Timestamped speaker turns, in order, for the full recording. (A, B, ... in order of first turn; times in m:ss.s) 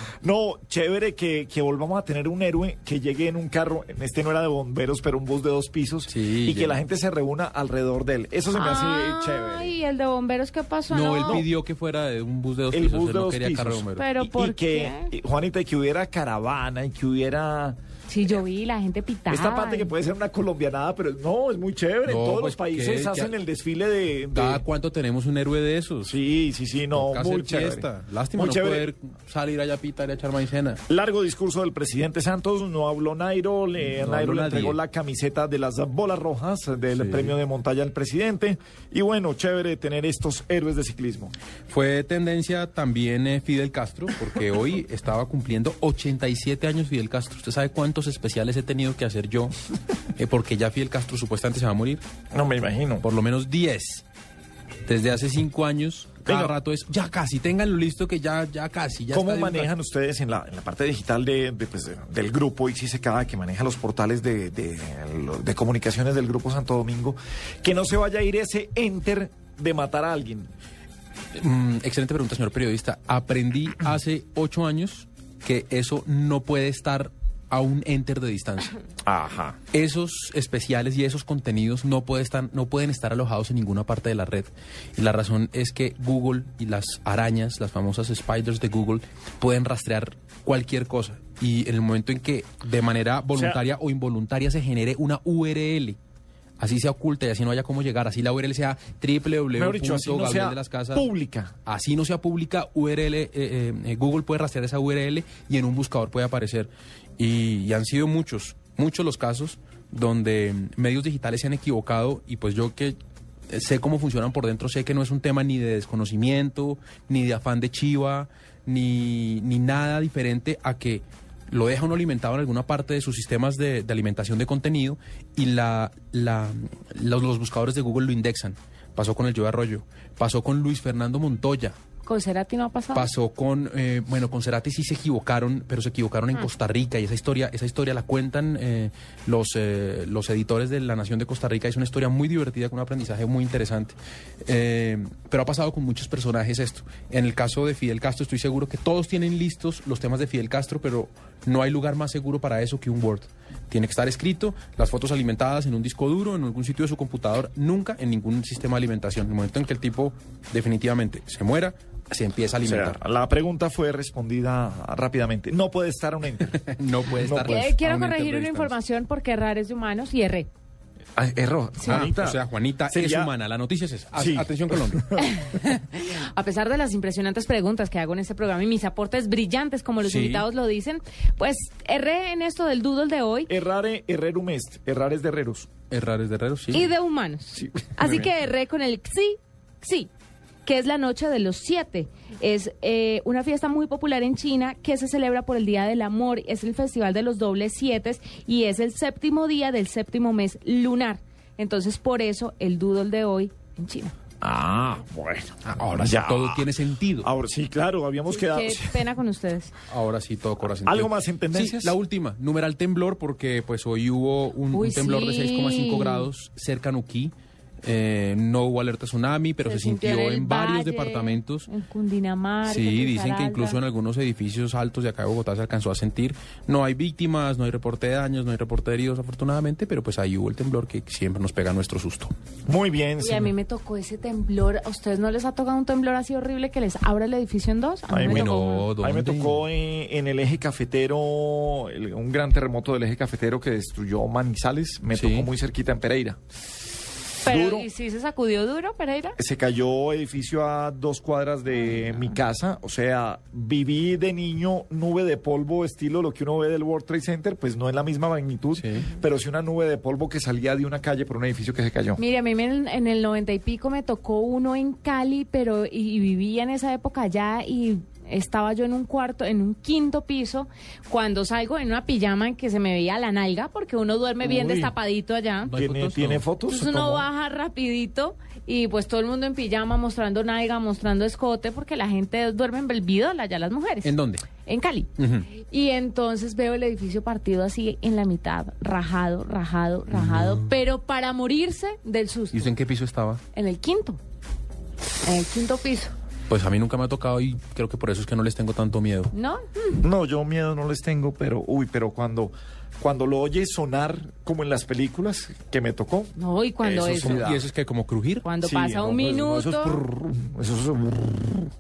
0:00.2-0:09.7 A
0:06.1-0:06.8 B
0:08.5-0:11.4 C
0:10.9-0:14.0 B
0:11.2-0:11.5 A
0:12.7-0:17.8 A
0:13.9-0:15.1 C
0:18.1-0:19.9 C
0:19.3-0:24.6 A
0:22.1-0:23.4 B
0:24.3-0:26.1 B
0:26.0-0:28.9 A
0:26.9-0:30.8 B
0:30.9-0:41.3 A
0:33.8-0:34.8 B
0:36.9-0:37.4 B
0:41.7-0:49.5 B
0:50.2-0:52.0 B
0:52.3-0:53.0 A
0:53.0-0:54.0 B
0:54.8-0:59.7 B
0:56.3-0:56.6 A
0:59.1-1:10.5 A
1:11.4-1:18.8 B
1:19.1-1:19.6 A
1:19.7-1:36.0 B
1:33.3-1:33.6 A
1:36.6-1:41.1 B
1:39.5-1:41.6 A
1:41.7-1:53.0 B
1:53.5-2:11.8 B
2:12.1-2:13.1 C
2:12.9-2:43.0 B
2:42.6-2:47.6 A
2:46.4-2:48.8 B
2:47.4-2:50.5 C
2:51.2-2:52.4 A
2:51.8-2:52.1 C
2:51.9-2:55.2 B
2:52.9-2:53.3 A
2:54.2-2:55.3 A
2:55.2-3:03.5 C
3:00.0-3:00.5 B
3:03.5-3:05.7 A
3:05.9-3:06.9 B
3:06.7-3:10.1 C
3:07.6-3:08.2 A
3:10.7-3:24.1 C
3:24.4-3:26.7 A
3:25.6-3:27.3 B
3:27.2-3:29.0 A
3:28.3-3:29.7 C
3:29.9-3:37.3 B
3:30.8-3:32.0 A
3:34.7-3:36.3 C
3:37.8-3:41.7 B
3:39.6-3:43.8 C
3:42.6-3:52.3 B
3:52.7-3:53.5 A
3:53.2-3:58.9 C
3:58.1-4:06.4 A
3:58.2-3:59.6 B
4:05.1-4:05.5 B
4:07.4-4:07.9 A
4:07.4-4:09.4 C
4:09.4-4:22.2 A
4:11.8-4:12.3 C
4:18.8-4:19.1 B
4:22.2-4:35.7 C
4:34.4-4:34.9 A
4:35.6-4:36.5 B
4:35.7-4:37.3 A
4:36.6-4:52.7 C
4:44.0-4:44.5 B
4:45.2-4:45.5 B
4:50.1-4:50.8 B
4:52.5-4:53.4 B
4:53.5-4:54.2 C
4:55.2-4:56.1 C
4:56.5-4:59.3 B
4:59.3-5:00.0 C
5:00.0-5:07.6 A
5:06.4-5:07.4 C
5:07.2-5:08.5 B
5:08.4-5:10.0 C
5:08.6-5:11.7 A